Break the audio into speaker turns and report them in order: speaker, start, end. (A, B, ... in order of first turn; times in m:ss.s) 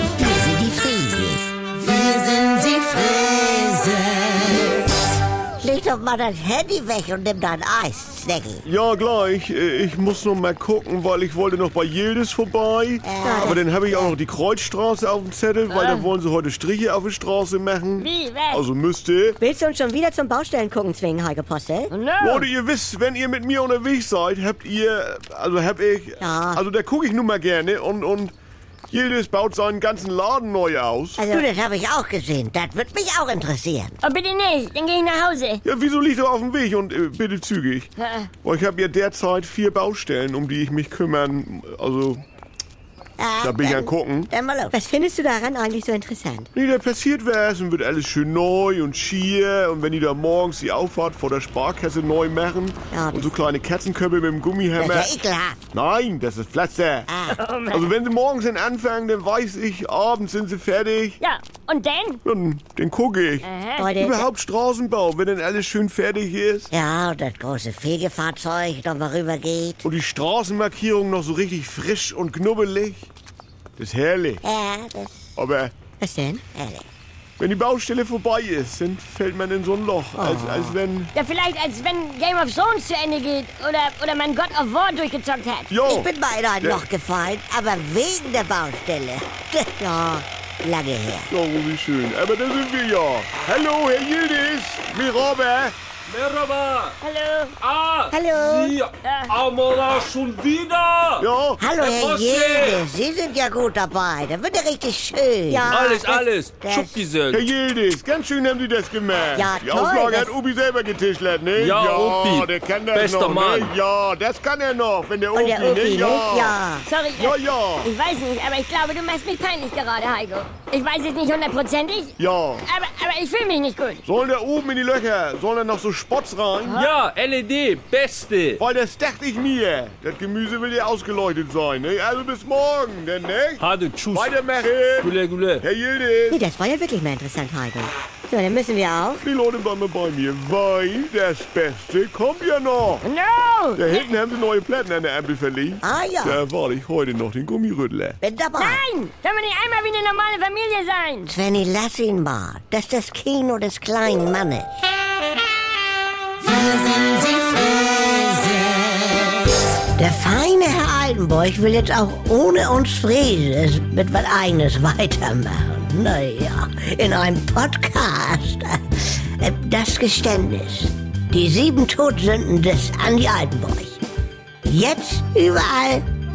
0:00.2-0:04.7 A
0:05.6-0:08.6 A
0:08.7-0:19.4 B
0:13.0-0:14.1 A
0:13.2-0:13.7 C
0:15.7-0:16.1 D
0:18.0-0:18.6 D
0:19.4-0:21.9 C
0:21.9-0:22.5 D
0:22.2-0:28.3 B
0:26.2-0:26.6 C
0:28.9-0:31.2 B
0:31.2-0:31.4 C
0:31.2-0:34.0 A
0:34.0-0:35.6 D
0:35.7-0:37.9 B
0:38.0-0:38.3 D
0:38.4-0:42.2 B
0:43.2-0:44.8 A
0:43.4-0:44.3 B
0:44.7-0:46.5 C
0:46.6-0:55.1 B
0:52.9-0:53.3 C
0:54.8-0:55.6 A
0:55.7-0:57.1 B
0:57.1-0:57.4 A
0:57.3-0:57.9 D
0:57.8-1:01.2 B
1:01.2-1:02.2 D
1:02.2-1:03.4 B
1:03.4-1:03.9 D
1:03.8-1:04.3 C
1:04.1-1:06.7 B
1:06.7-1:09.8 A
1:09.8-1:13.1 B
1:13.8-1:14.4 B
1:14.4-1:15.3 A
1:15.4-1:15.7 B
1:16.0-1:16.4 C
1:16.5-1:16.9 A
1:17.4-1:21.1 B
1:20.2-1:20.8 C
1:21.2-1:25.8 D
1:25.7-1:26.1 B
1:25.8-1:31.3 A
1:31.3-1:35.7 B
1:36.1-1:37.0 E
1:37.0-1:37.6 D
1:37.6-1:41.3 E
1:38.1-1:38.8 C
1:39.0-1:39.3 D
1:41.2-1:41.6 B
1:41.6-1:45.7 A
1:41.8-1:42.8 E
1:45.5-1:46.2 C
1:45.7-1:47.5 E
1:46.6-1:47.0 A
1:47.3-1:56.6 B
1:49.4-1:50.4 C
1:51.6-1:53.7 E
1:55.3-1:56.9 C
1:56.8-2:04.1 D
1:57.3-1:57.9 B
2:02.2-2:02.6 B
2:04.1-2:06.8 B
2:06.6-2:06.9 D
2:06.7-2:08.6 E
2:08.6-2:16.4 B
2:13.6-2:15.6 E
2:16.3-2:19.2 C
2:19.2-2:23.0 B
2:23.0-2:24.0 D
2:23.8-2:28.2 B
2:25.8-2:26.4 A
2:28.2-2:28.9 A
2:28.6-2:31.3 D
2:31.3-2:34.8 A
2:40.0-2:54.0 A
2:54.6-2:56.1 A